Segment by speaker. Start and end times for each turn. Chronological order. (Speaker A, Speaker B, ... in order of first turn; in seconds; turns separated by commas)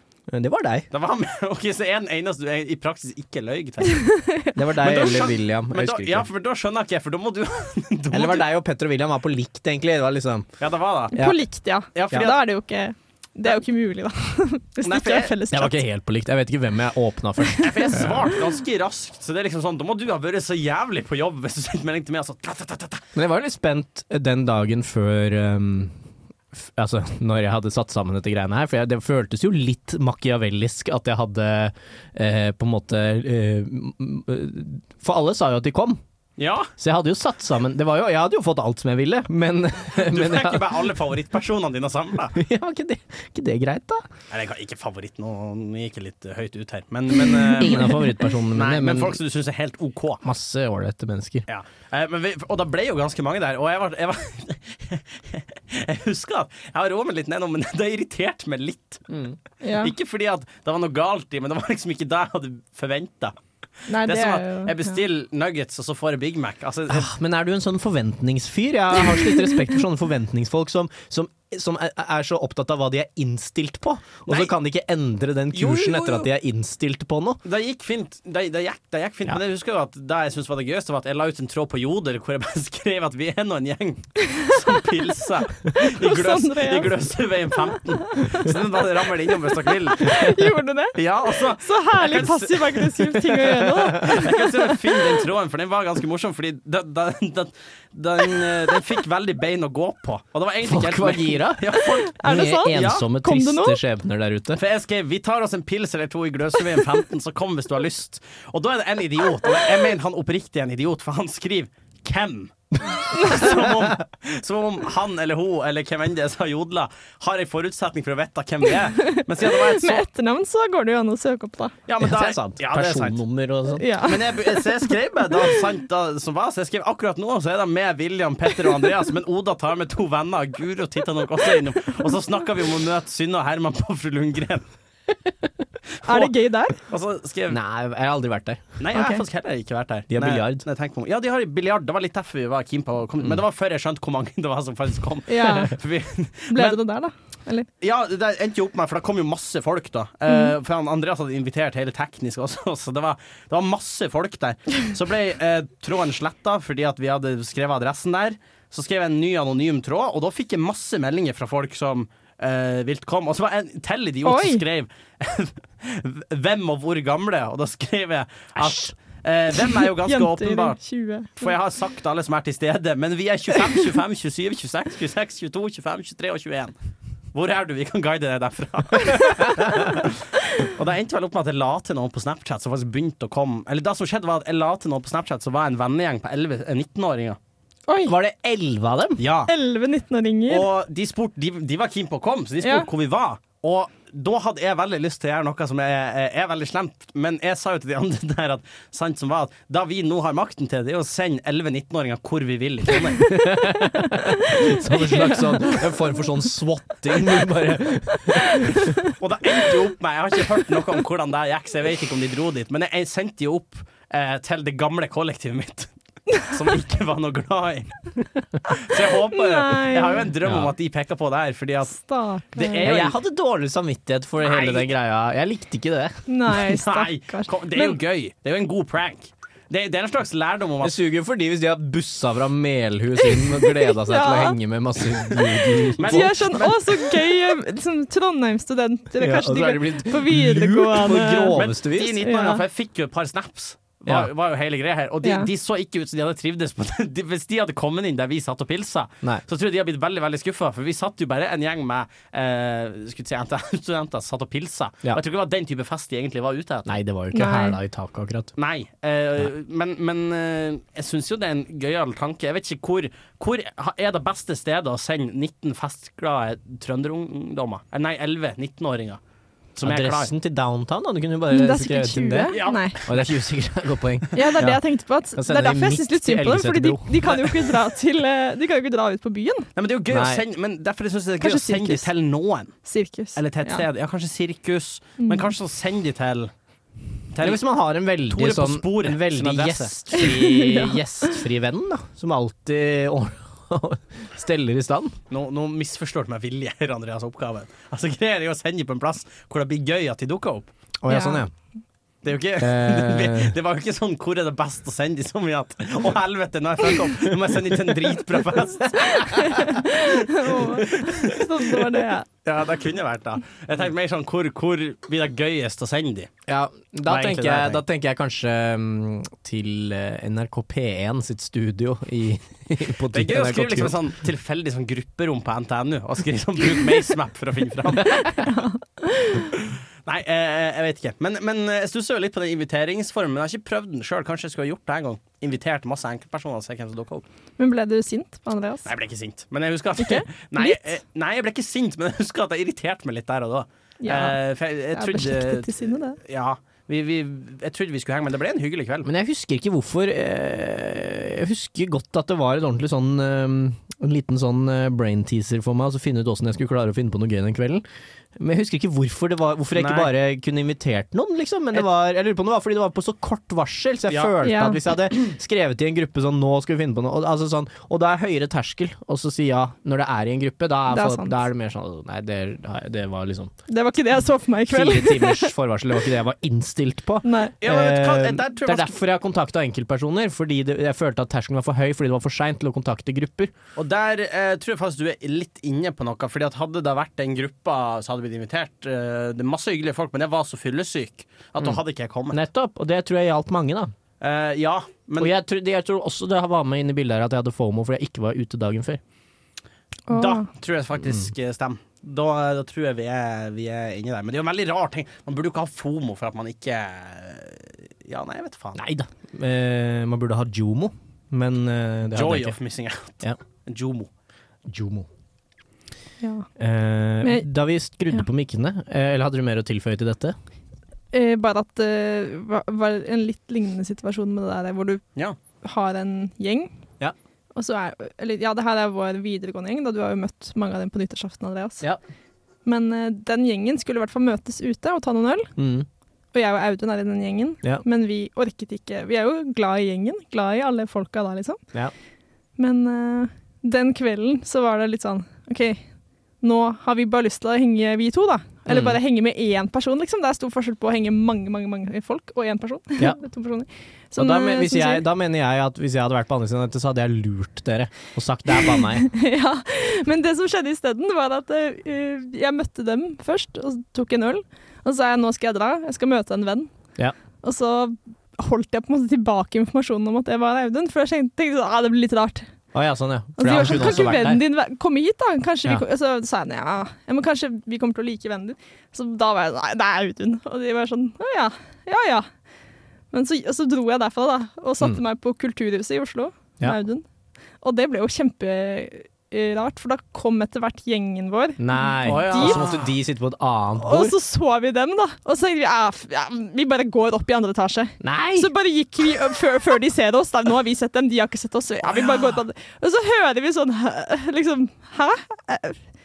Speaker A: 0.3-0.9, Speaker B: 0.9-4.0, Speaker C: 3.8-4.5, Speaker A: 4.5-6.3, Speaker B: 4.8-8.4, Speaker A: 8.1-10.5, Speaker B: 10.6-11.2, Speaker A: 11.1-11.4, Speaker C: 11.1-15.8, Speaker B: 11.9-12.4, Speaker B: 14.8-15.3, Speaker A: 15.5-18.3, Speaker C: 17.4-18.1, Speaker B: 17.6-23.0, Speaker A: 23.1-25.9, Speaker A: 26.5-36.0, Speaker B: 36.4-36.7, Speaker A: 36.8-40.8, Speaker B: 40.0-42.4, Speaker A: 42.3-44.1, Speaker B: 44.3-50.2, Speaker C: 47.1-48.0, Speaker A: 47.6-49.2, Speaker A: 50.2-51.4, Speaker B: 51.5-59.0, Speaker A: 59.1-59.4, Speaker C: 59.6-59.9, Speaker B: 59.8-63.4, Speaker C: 63.9-65.0, Speaker B: 64.0-67.1, Speaker A: 66.9-77.4, Speaker B: 75.5-76.3, Speaker B: 77.4-90.3, Speaker C: 84.2-84.6, Speaker C: 85.7-86.9, Speaker C: 87.7-88.5, Speaker C: 89.5-95.2, Speaker B: 90.9-102.2, Speaker A: 100.6-104.6, Speaker C: 101.8-103.8, Speaker B: 102.7-103.0, Speaker B: 104.6-120.0, Speaker C: 113.1-113.6, Speaker C: 118.7-121.7, Speaker B: 121.9-123.2, Speaker A: 122.0-123.8, Speaker C: 123.8-124.9, Speaker B: 124.0-134.6, Speaker C: 136.0-136.8, Speaker B: 136.1-136.3, Speaker B: 136.9-137.6, Speaker A: 137.5-138.6, Speaker B: 138.8-146.8, Speaker C: 138.9-139.2, Speaker A: 140.1-140.6, Speaker C: 145.3-145.8, Speaker C: 146.5-147.7, Speaker B: 147.8-170.8, Speaker C: 164.2-164.6, Speaker A: 168.6-168.9, Speaker C: 169.7-171.5, Speaker B: 171.4-176.7, Speaker B: 177.3-187.4, Speaker C: 187.9-188.1, Speaker A: 188.1-189.2, Speaker B: 189.2-189.5, Speaker C: 189.5-190.7, Speaker B: 190.5-203.3, Speaker C: 192.6-192.9, Speaker C: 203.2-206.2, Speaker A: 203.2-208.9, Speaker C: 208.3-209.1, Speaker B: 209.1-218.0, Speaker B: 218.7-222.0, Speaker C: 218.7-220.3, Speaker A: 220.4-220.7, Speaker C: 221.9-222.9, Speaker B: 222.5-223.2, Speaker A: 222.8-226.2, Speaker B: 224.4-224.9, Speaker C: 226.3-228.0, Speaker B: 226.5-230.9, Speaker A: 230.8-236.5, Speaker C: 233.3-234.6, Speaker B: 236.0-237.0, Speaker C: 236.0-241.6, Speaker A: 239.2-242.2, Speaker B: 241.5-256.9, Speaker C: 242.2-242.6, Speaker C: 245.2-245.5, Speaker A: 256.9-258.5, Speaker C: 257.3-257.8, Speaker B: 258.6-269.2, Speaker B: 269.8-270.3, Speaker A: 269.8-274.8, Speaker C: 271.5-273.0, Speaker B: 272.5-273.4, Speaker C: 274.3-279.7, Speaker A: 275.4-277.4, Speaker B: 277.3-277.6, Speaker B: 279.8-282.8, Speaker A: 280.1-280.4, Speaker C: 281.4-282.1, Speaker C: 282.8-283.8, Speaker B: 283.4-286.5, Speaker C: 285.2-285.5, Speaker B: 287.3-287.6, Speaker A: 287.4-295.1, Speaker B: 288.3-290.1, Speaker C: 290.1-291.3, Speaker B: 295.3-300.7, Speaker A: 301.0-301.5, Speaker C: 301.1-301.4, Speaker B: 302.2-316.3, Speaker A: 302.6-303.5, Speaker C: 309.1-312.2, Speaker A: 316.5-323.9, Speaker B: 317.1-317.8, Speaker B: 323.1-328.4, Speaker C: 328.3-329.5, Speaker B: 329.6-337.2, Speaker C: 337.6-338.9, Speaker B: 338.9-349.1, Speaker C: 340.0-340.9, Speaker C: 344.0-344.4, Speaker C: 344.9-346.2, Speaker A: 349.0-357.8, Speaker A: 358.4-373.5, Speaker B: 359.7-360.1, Speaker B: 364.1-364.3, Speaker C: 364.4-364.8, Speaker C: 370.9-371.4, Speaker C: 373.7-375.5, Speaker A: 374.7-383.5, Speaker C: 377.2-377.6, Speaker B: 377.6-378.9, Speaker B: 383.8-392.4, Speaker A: 392.3-393.9, Speaker B: 394.2-395.3, Speaker A: 395.2-399.0, Speaker C: 400.1-400.5, Speaker B: 400.1-408.8, Speaker A: 408.7-412.6, Speaker B: 412.1-414.1, Speaker A: 414.6-415.1, Speaker C: 416.2-416.5, Speaker A: 416.6-420.4, Speaker C: 421.1-425.0, Speaker C: 425.6-426.7, Speaker C: 427.5-431.8, Speaker C: 432.6-435.5, Speaker A: 435.6-435.9, Speaker C: 436.3-441.6, Speaker C: 442.6-445.8, Speaker C: 446.4-455.0, Speaker A: 448.7-449.0, Speaker A: 454.1-459.1, Speaker C: 458.6-466.7, Speaker C: 467.4-472.5, Speaker A: 472.7-474.4, Speaker C: 473.4-482.3, Speaker C: 483.1-487.0, Speaker C: 487.6-492.7, Speaker A: 491.6-494.1, Speaker B: 492.0-492.9, Speaker C: 493.8-505.8, Speaker A: 498.0-498.5, Speaker B: 501.8-502.4